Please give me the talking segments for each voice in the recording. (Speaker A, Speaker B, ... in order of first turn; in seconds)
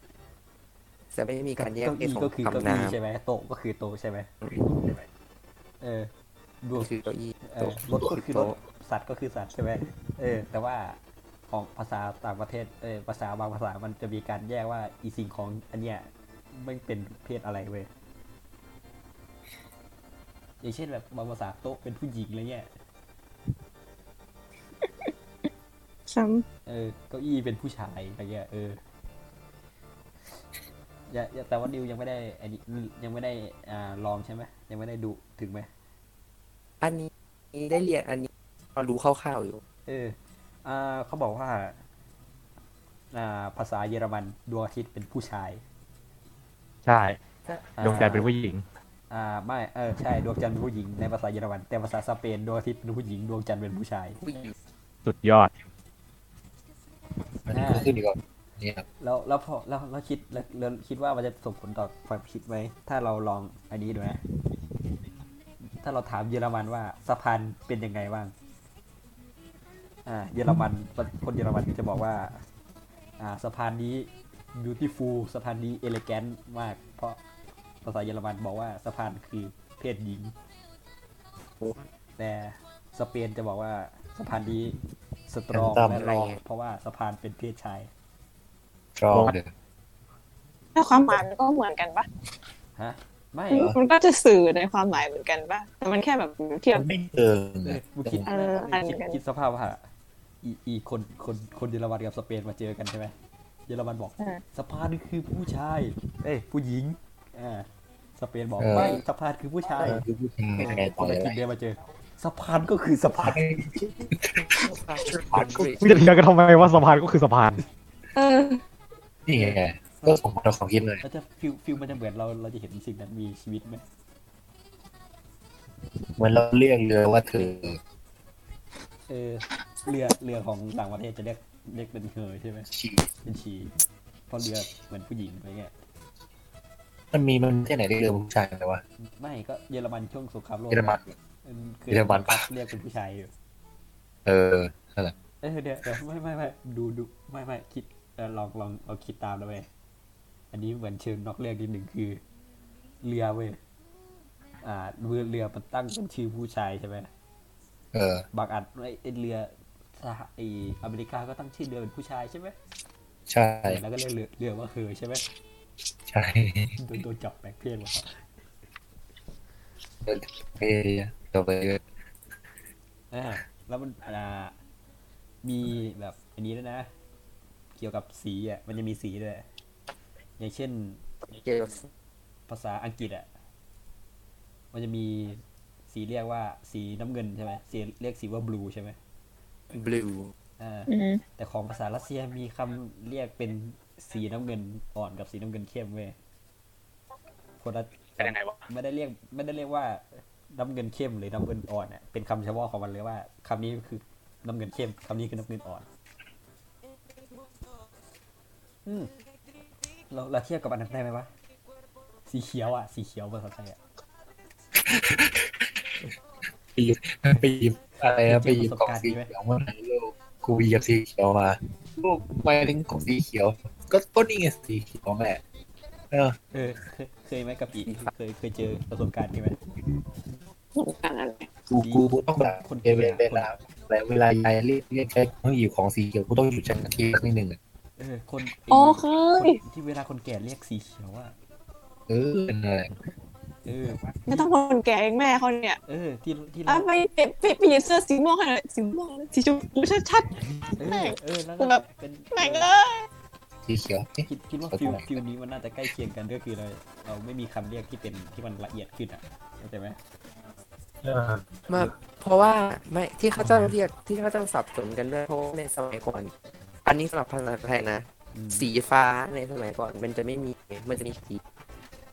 Speaker A: 1.1-3.0, 6.8-8.6, 36.8-39.6, 47.5-48.1, 54.2-54.5, 85.9-86.4, 114.6-116.0, 181.3-181.9, 189.7-190.3, 261.7-266.3, 266.9-271.4
Speaker B: 1.6-4.3, 5.8-6.1, 6.6-6.9, 7.4-11.0, 11.5-17.9, 20.6-22.7, 26.7-28.8, 31.1-35.7, 39.9-41.8, 43.1-45.6, 47.8-48.3, 49.1-54.3, 57.5-57.9, 59.0-64.2, 65.8-68.3, 70.1-72.4, 73.2-77.2, 77.8-80.3, 82.2-84.8, 85.3-87.9, 92.8-93.7, 97.6-99.8, 100.4-103.1, 103.7-110.0, 110.6-113.4, 119.3-120.2, 121.0-123.8, 129.1-132.7, 133.2-133.7, 134.3-135.7, 139.2-143.3, 145.4-149.7, 150.5-152.2, 153.0-153.6, 154.6-157.1, 158.3-162.6, 163.7-165.2, 166.8-168.1, 173.1-174.6, 175.4-176.9, 177.8-179.5, 180.4-181.0, 182.5-183.3, 184.7-189.0, 190.6-196.2, 197.6-205.9, 208.9-209.1, 210.1-211.3, 212.3-213.8, 218.2-219.3, 226.5-229.6, 231.8-233.5, 238.0-241.3, 243.7-244.5, 245.9-246.9, 250.8-252.7, 254.3-260.0, 268.3-268.7
Speaker C: 26.1-26.4, 90.8-92.1, 93.5-96.8, 98.3-99.2, 118.2-118.6, 190.9-191.2, 230.8-231.5, 238.7-239.6, 244.3-245.8, 246.7-251.8, 252.3-253.1
Speaker D: 46.9-47.2, 47.8-48.6, 55.0-55.5, 89.1-89.4, 115.8-117.6
Speaker E: 57.5-58.9, 85.5-86.0, 89.0-89.5, 96.7-98.3, 108.6-109.0, 109.8-111.4, 113.2-115.7, 119.3-121.0, 126.2-127.8, 132.7-133.1, 137.1-138.8, 140.7-141.2, 141.9-142.5, 144.3-145.1, 157.9-158.2, 163.3-163.8, 166.1-166.8, 170.0-171.8, 214.8-215.7, 216.8-225.4, 226.1-226.4, 231.7-237.6, 242.1-242.9, 253.7-255.1, 261.0-261.9, 263.4-263.7